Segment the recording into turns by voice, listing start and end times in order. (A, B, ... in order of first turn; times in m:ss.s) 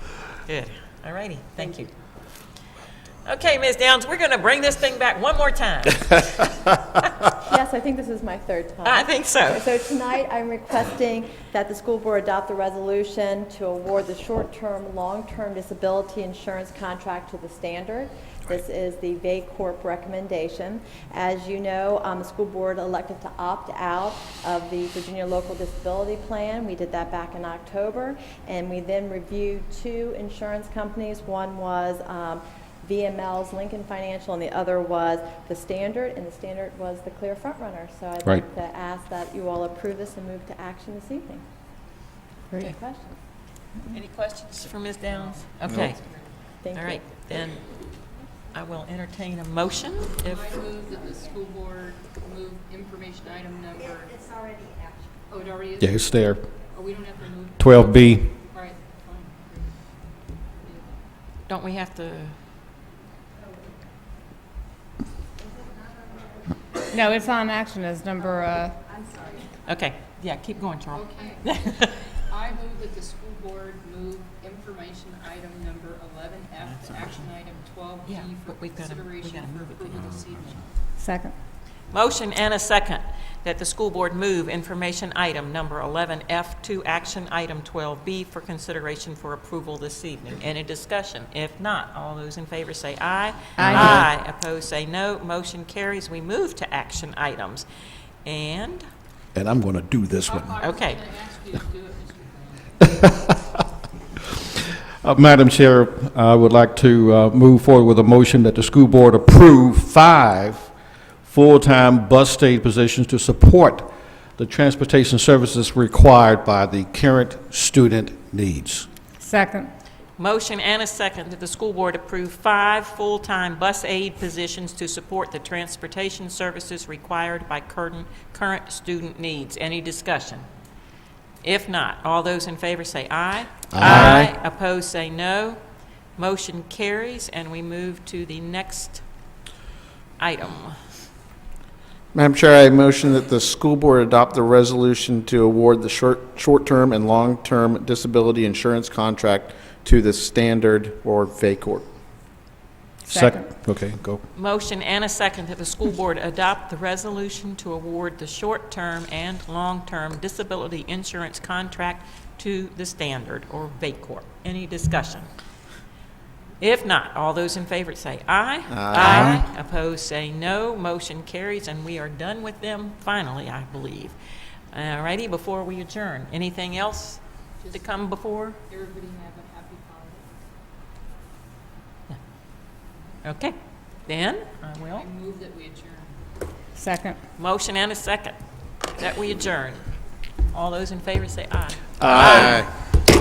0:00.4-0:01.9 A
0:03.2-0:07.0 A
0:07.4-0:41.4 B
0:08.8-0:09.6 A
0:42.6-0:43.2 B
0:43.9-0:46.2 A
0:46.6-0:47.0 B
0:46.7-0:47.6 A
0:48.5-0:50.5 A
0:50.3-0:54.1 C
0:55.3-0:56.0 C
0:55.8-0:56.5 D
0:56.7-0:57.9 C
0:57.6-0:58.3 D
0:58.5-0:59.8 C
1:00.6-1:01.0 C
1:01.4-1:02.3 A
1:06.9-1:08.8 E
1:09.7-1:12.1 A
1:11.0-1:11.4 C
1:12.3-1:20.7 C
1:16.7-1:17.3 A
1:18.0-1:20.1 A
1:21.0-1:21.4 E
1:21.9-1:37.6 A
1:33.6-1:34.0 E
1:38.2-1:38.8 A
1:39.3-1:40.6 D
1:40.3-1:42.8 C
1:40.6-1:41.0 A
1:42.9-1:43.3 D
1:45.0-1:50.7 D
1:51.2-1:58.9 D
1:59.2-1:59.7 E
2:00.2-2:10.4 A
2:11.4-2:15.6 A
2:13.7-2:14.2 D
2:13.8-2:14.3 F
2:16.2-2:19.0 A
2:20.2-2:20.8 A
2:22.1-2:31.9 F
2:33.0-2:33.5 E
2:33.0-2:34.2 D
2:34.3-2:45.3 A
2:46.6-2:54.1 A
2:48.7-2:49.4 F
2:54.7-2:57.2 A
2:57.7-2:58.6 A
2:58.7-3:00.3 C
3:03.2-3:03.5 A
3:04.0-3:05.1 A
3:05.0-3:06.1 C
3:06.8-3:07.2 E
3:07.4-3:08.4 A
3:08.9-3:09.9 A
3:10.5-3:12.6 A
3:12.0-3:12.7 F